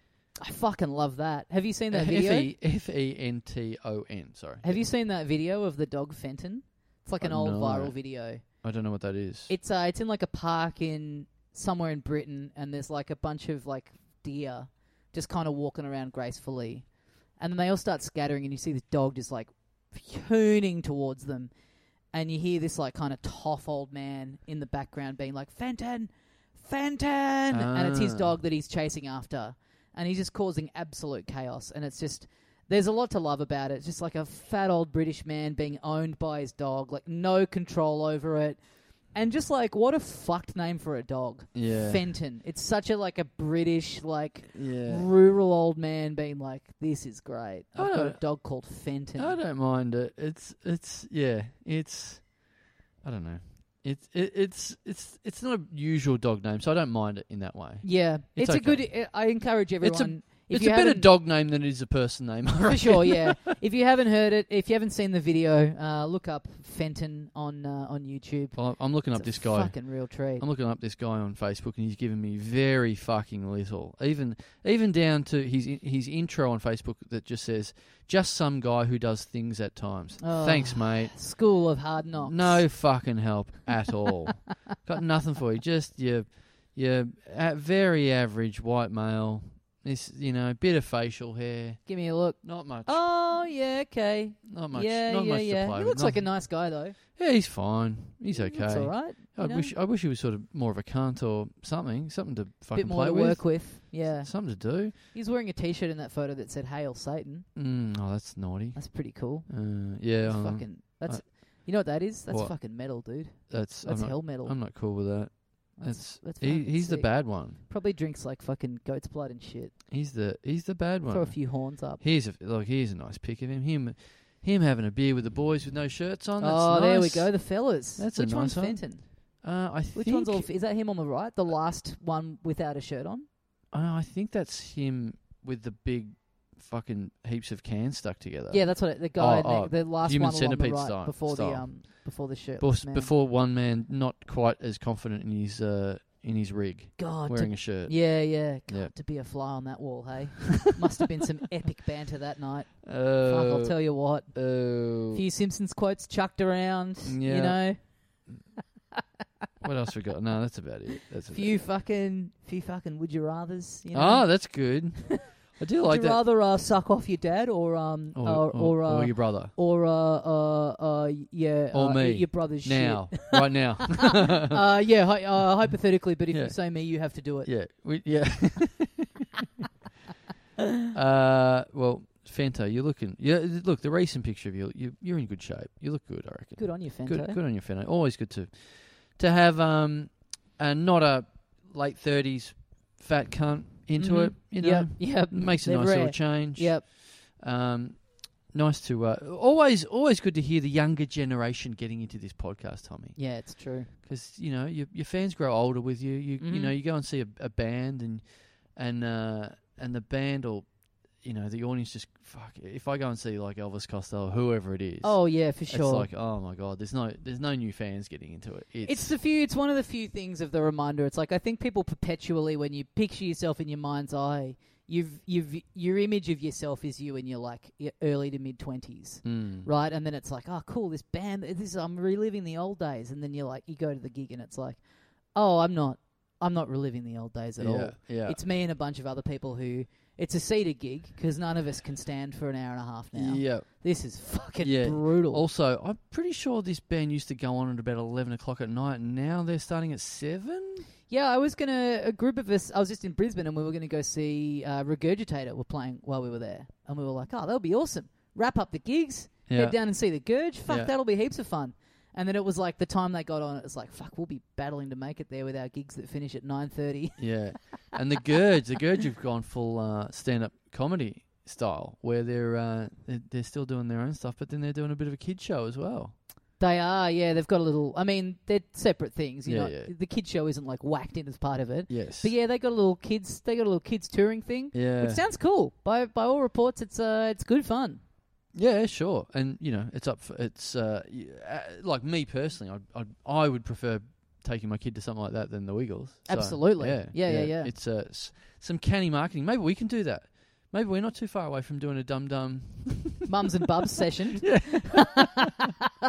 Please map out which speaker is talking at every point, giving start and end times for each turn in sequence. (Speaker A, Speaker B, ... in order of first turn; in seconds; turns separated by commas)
Speaker A: 0.4-2.5, Speaker B: 1.9-4.8, Speaker A: 4.6-8.4, Speaker B: 7.2-9.5, Speaker A: 9.5-21.5, Speaker A: 22.1-38.6, Speaker B: 27.5-28.4, Speaker A: 39.1-49.4, Speaker B: 41.5-42.0, Speaker B: 44.5-45.1, Speaker B: 47.8-48.6, Speaker B: 49.2-59.0, Speaker A: 57.8-61.1, Speaker B: 59.8-63.4, Speaker A: 62.7-70.5, Speaker B: 68.5-81.4, Speaker A: 80.2-82.7, Speaker B: 82.2-93.0, Speaker A: 91.9-97.0, Speaker B: 94.5-96.5, Speaker B: 97.2-104.9, Speaker A: 98.3-99.7, Speaker A: 102.7-107.5, Speaker B: 107.5-111.3, Speaker A: 108.7-114.7, Speaker B: 112.3-117.6, Speaker A: 115.8-119.8, Speaker B: 119.9-130.5, Speaker A: 121.1-122.0, Speaker A: 126.4-129.4, Speaker A: 129.9-133.2, Speaker B: 133.7-148.9, Speaker A: 138.5-143.1, Speaker A: 147.0-157.9, Speaker B: 152.8-155.2, Speaker B: 157.1-157.7, Speaker B: 159.6-161.5, Speaker A: 161.3-165.2, Speaker B: 163.9-166.2, Speaker A: 165.8-177.5, Speaker B: 168.1-169.5, Speaker B: 171.7-174.6, Speaker B: 176.3-176.8, Speaker B: 177.4-179.3, Speaker B: 180.9-219.1, Speaker A: 186.6-187.4, Speaker A: 194.0-196.9, Speaker A: 203.2-203.9, Speaker A: 206.4-206.7, Speaker A: 215.0-216.1, Speaker A: 218.8-234.8, Speaker B: 229.2-229.7, Speaker A: 235.3-245.4, Speaker B: 237.6-238.4, Speaker B: 243.1-243.9, Speaker B: 244.6-250.9, Speaker A: 251.1-267.4, Speaker B: 259.5-259.8, Speaker B: 260.7-260.9, Speaker B: 267.2-276.1, Speaker A: 276.6-288.0, Speaker B: 279.5-279.9, Speaker B: 281.9-282.3, Speaker B: 284.7-285.2, Speaker B: 288.5-303.3, Speaker A: 296.3-297.7, Speaker A: 303.3-305.1, Speaker B: 304.4-305.5